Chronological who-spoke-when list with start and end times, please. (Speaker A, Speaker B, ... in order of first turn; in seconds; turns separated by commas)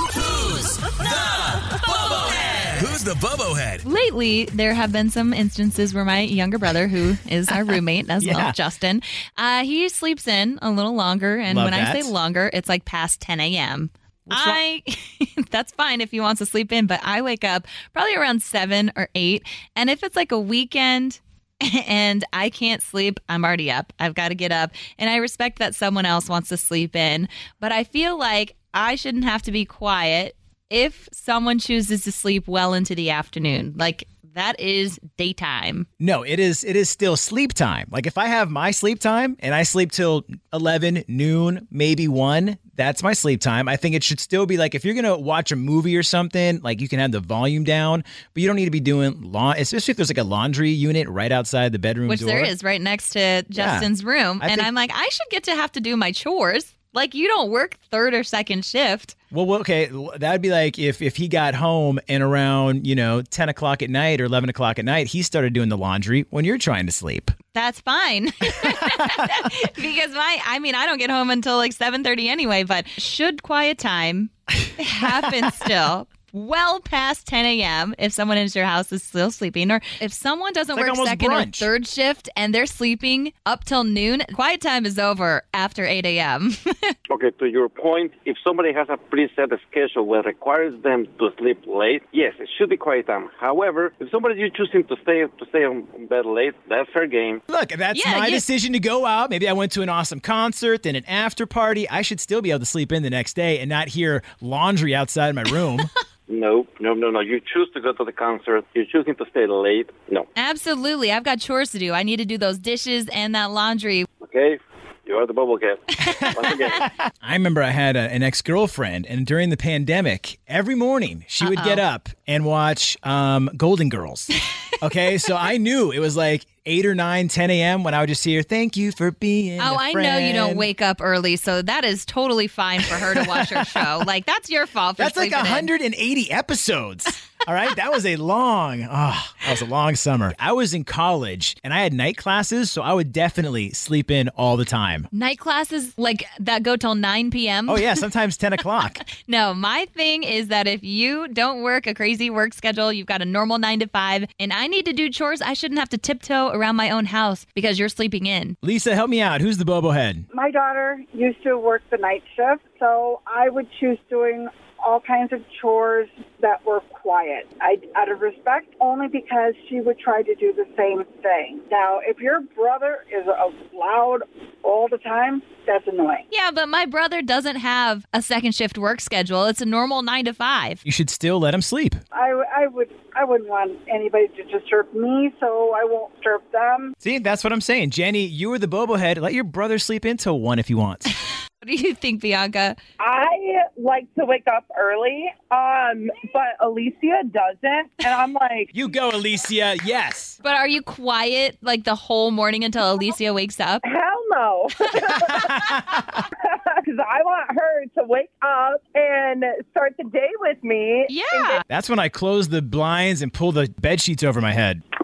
Speaker A: 0.4-3.8, Speaker B: 3.8-35.9, Speaker C: 8.2-8.6, Speaker C: 11.5-12.1, Speaker C: 14.3-14.6, Speaker C: 36.0-52.5, Speaker B: 52.0-59.1, Speaker C: 53.6-53.9, Speaker C: 54.4-54.7, Speaker C: 59.3-67.3, Speaker B: 67.5-86.9, Speaker C: 80.7-81.7, Speaker D: 87.1-97.4, Speaker C: 97.5-105.9, Speaker B: 97.9-98.5, Speaker D: 106.3-110.3, Speaker B: 110.3-114.1, Speaker D: 114.2-116.8, Speaker C: 117.2-130.7, Speaker B: 121.4-121.8, Speaker B: 129.6-135.7, Speaker C: 133.2-133.8, Speaker C: 135.0-145.1, Speaker B: 145.1-148.0, Speaker C: 147.7-149.0, Speaker B: 149.2-158.6, Speaker C: 158.6-160.2, Speaker E: 160.3-176.2, Speaker B: 176.3-180.8, Speaker C: 180.8-182.0, Speaker E: 182.1-186.9, Speaker C: 187.0-191.1, Speaker B: 191.6-192.8, Speaker F: 193.0-198.7, Speaker C: 198.7-200.4, Speaker B: 200.4-203.8, Speaker F: 203.8-205.8, Speaker C: 205.3-206.2, Speaker F: 206.5-211.6, Speaker B: 211.1-211.6, Speaker C: 211.7-214.8